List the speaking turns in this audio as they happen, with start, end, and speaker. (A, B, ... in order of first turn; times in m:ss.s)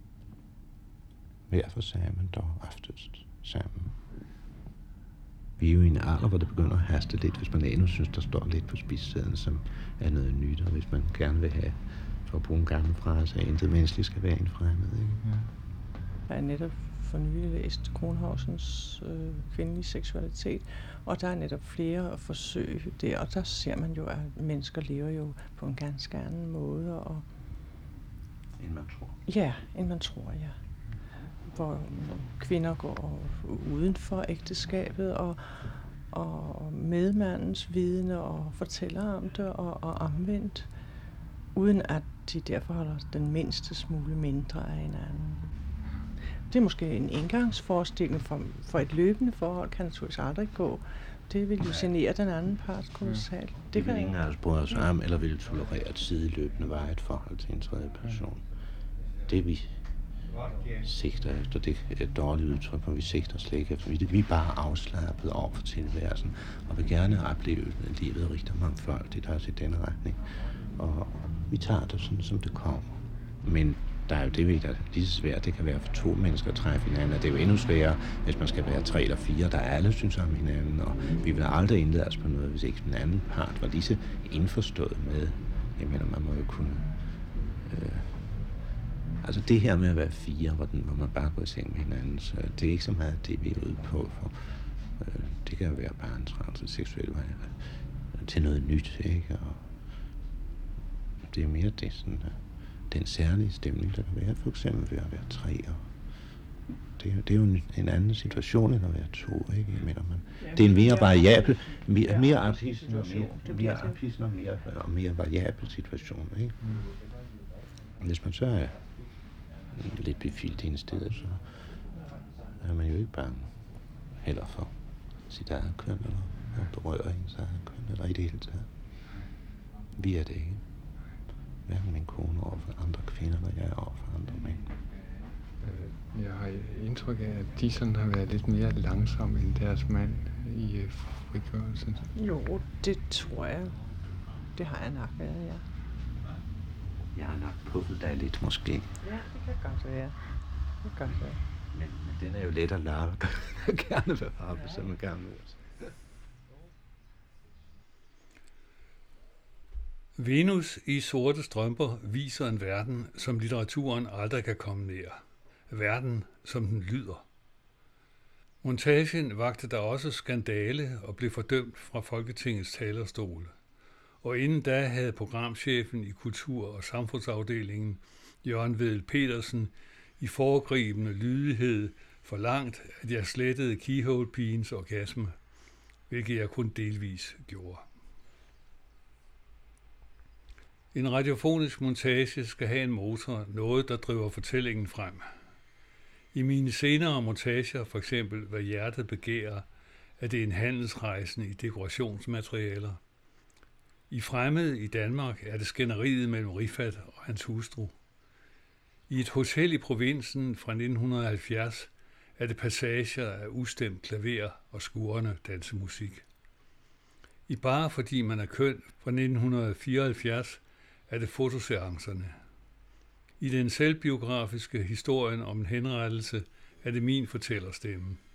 0:01.5-0:04.0 A
0:05.6-0:15.3 A
0:15.2-0:15.5 B
0:16.3-0:27.2 C
0:28.6-0:29.2 A
0:29.3-0:30.6 C
0:31.4-0:45.5 C
0:46.5-0:54.2 C
0:51.6-0:51.9 A
0:53.0-0:53.3 B
0:53.7-0:58.6 A
0:59.2-0:59.8 A
1:00.6-1:28.6 A
1:29.2-1:39.8 A
1:41.2-1:46.3 A
1:46.9-1:56.6 A
1:50.4-1:54.0 C
1:56.6-1:56.9 B
1:58.0-2:02.0 A
2:02.6-2:08.8 A
2:10.0-2:10.6 A
2:11.7-2:14.7 A
2:15.6-2:22.1 B
2:22.2-2:24.0 C
2:24.5-2:25.6 C
2:27.1-2:28.9 A
2:29.0-2:30.2 C
2:30.8-2:31.4 C
2:31.0-2:35.9 A
2:40.2-2:47.2 D
2:48.6-2:53.5 D
2:54.2-3:05.3 D
3:06.1-3:07.9 D
3:10.9-3:15.3 D
3:16.3-3:19.7 D
3:20.2-3:23.0 D
3:24.1-3:27.9 D
3:29.1-3:36.2 D
3:37.5-3:42.4 D
3:43.4-3:48.2 D